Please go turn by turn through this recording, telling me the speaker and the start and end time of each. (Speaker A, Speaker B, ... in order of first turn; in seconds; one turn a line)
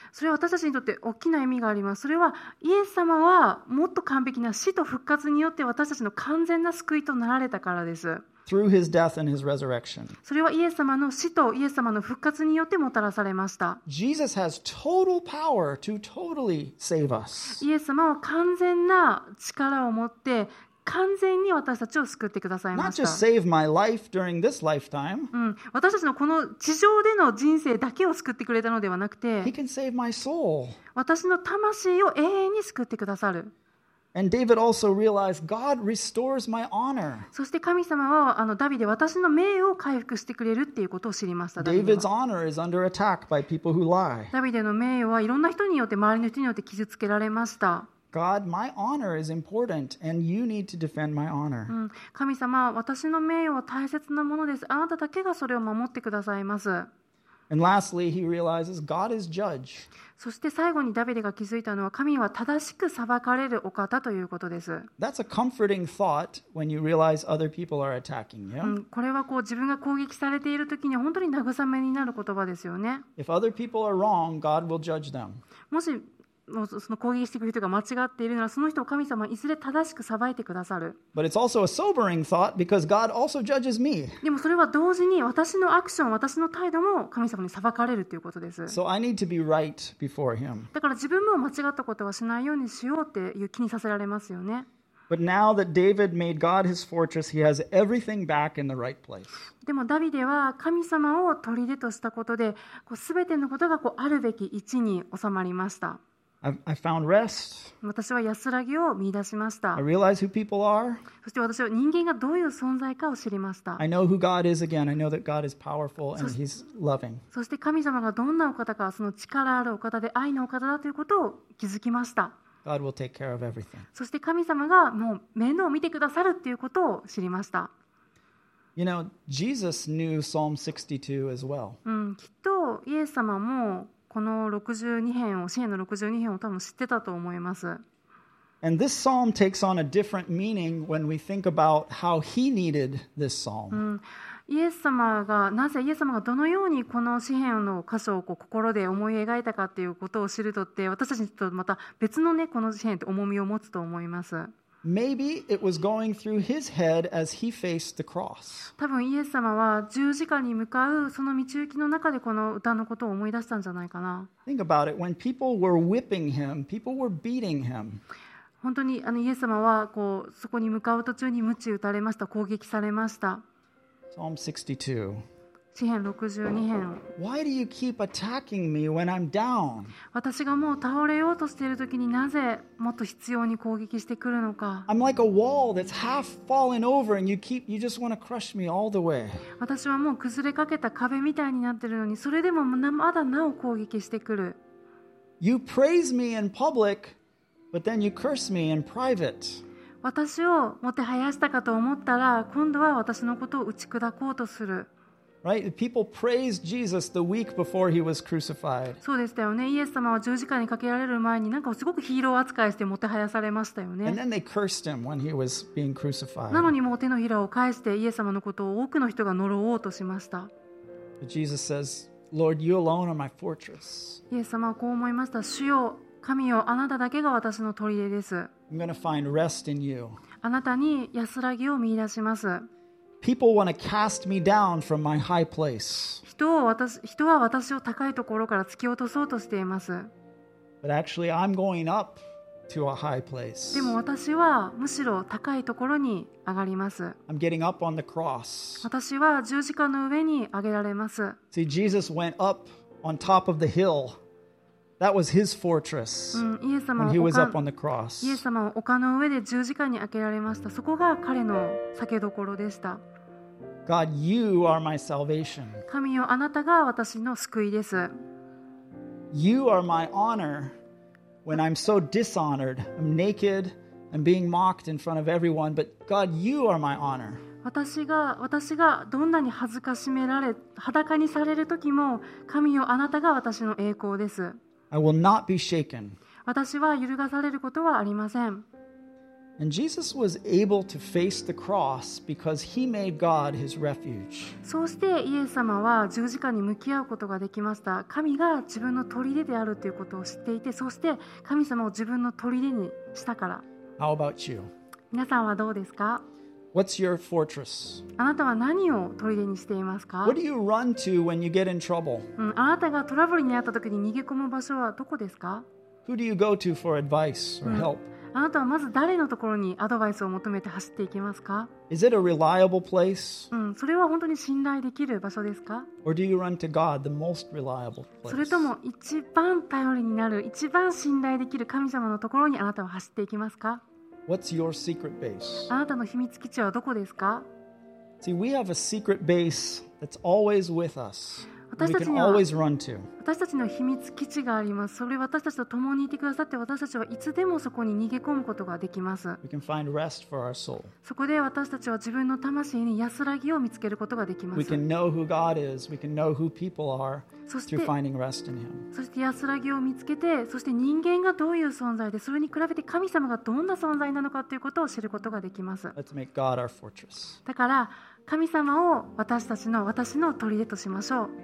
Speaker A: 0.1-8.2
Speaker B: 8.4-10.2
Speaker A: 10.2-13.8
Speaker B: 13.8-17.6
Speaker A: 17.6-23.2
Speaker B: 22.7-25.3
Speaker A: 25.3-29.5
Speaker B: 29.4-30.8
Speaker A: 30.9-33.5
Speaker B: 34.1-37.3
Speaker A: 37.3-42.0
Speaker B: 41.6-44.3
Speaker A: 44.3-47.9
Speaker B: 48.1-51.7
Speaker A: 51.7-56.9
Speaker B: 57.5-59.9
Speaker A: 60.2-64.9
Speaker B: 65.0-68.8
Speaker A: 68.6-73.0
Speaker B: 73.2-75.4
Speaker A: 75.7-81.0
Speaker B: 81.1-84.2
Speaker A: 84.2-88.8
Speaker B: 88.7-90.7
Speaker A: 90.7-94.7
Speaker B: 95.1-99.3
Speaker A: 99.6-106.0
Speaker B: 106.4-107.7
Speaker A: 107.8-109.8
Speaker B: 109.8-111.0
Speaker A: 111.2-113.8
Speaker B: 113.8-117.2
Speaker A: 117.3-122.3
Speaker B: 122.6-123.9
Speaker A: 123.9-127.7
Speaker B: 128.8-131.8
Speaker A: 131.8-137.8
Speaker B: 138.6-143.8
Speaker A: 143.7-154.5
Speaker B: 154.8-158.7
Speaker A: 158.8-164.3
Speaker B: 164.4-168.0
Speaker A: 168.6-173.4
Speaker B: 174.1-175.2
Speaker A: 175.7-177.1
Speaker B: 177.2-179.9
Speaker A: 180.1-184.9
Speaker B: 184.9-189.4
Speaker A: 189.6-194.6
Speaker B: 195.4-197.2
Speaker B: 197.7-199.6
Speaker A: 200.0-204.9
Speaker B: 205.4-209.0
Speaker A: 209.0-214.2
Speaker B: 214.0-216.7
Speaker A: 216.5-220.5
Speaker B: 221.2-224.2
Speaker A: 224.3-228.5
Speaker B: 228.7-230.2
Speaker A: 230.4-232.7
Speaker B: 233.2-236.2
Speaker A: 236.2-240.1
Speaker B: 240.8-243.9
Speaker A: 243.7-247.2
Speaker B: 247.3-248.9
Speaker A: 248.8-251.4
Speaker B: 251.5-254.2
Speaker B: 255.0-256.5
Speaker A: 256.3-257.6
Speaker B: 257.0-258.4
Speaker A: 258.2-263.0
Speaker B: 263.9-265.9
Speaker A: 265.9-268.1
Speaker B: 269.3-270.8
Speaker B: 271.4-277.4
Speaker A: 277.6-284.6
Speaker B: 284.9-286.2
Speaker A: 286.4-288.6
Speaker B: 289.6-294.6
Speaker A: 294.6-303.6
Speaker B: 304.0-304.7
Speaker A: 305.1-306.2
Speaker B: 306.7-308.1
Speaker A: 308.2-310.4
Speaker B: 310.2-312.3
Speaker A: 312.4-315.6
Speaker B: 316.1-318.1
Speaker A: 317.6-321.7
Speaker B: 321.9-323.5
Speaker A: 323.5-325.9
Speaker B: 326.0-328.7
Speaker A: 328.3-333.8
Speaker B: 334.3-335.7
Speaker A: 335.7-337.4
Speaker B: 338.2-343.1
Speaker A: 341.7-342.4
Speaker A: 343.2-349.4
Speaker B: 349.4-350.9
Speaker A: 351.0-354.8
Speaker B: 354.5-358.9
Speaker A: 357.5-357.9
Speaker A: 358.9-365.9
Speaker B: 365.9-367.4
Speaker A: 367.4-371.3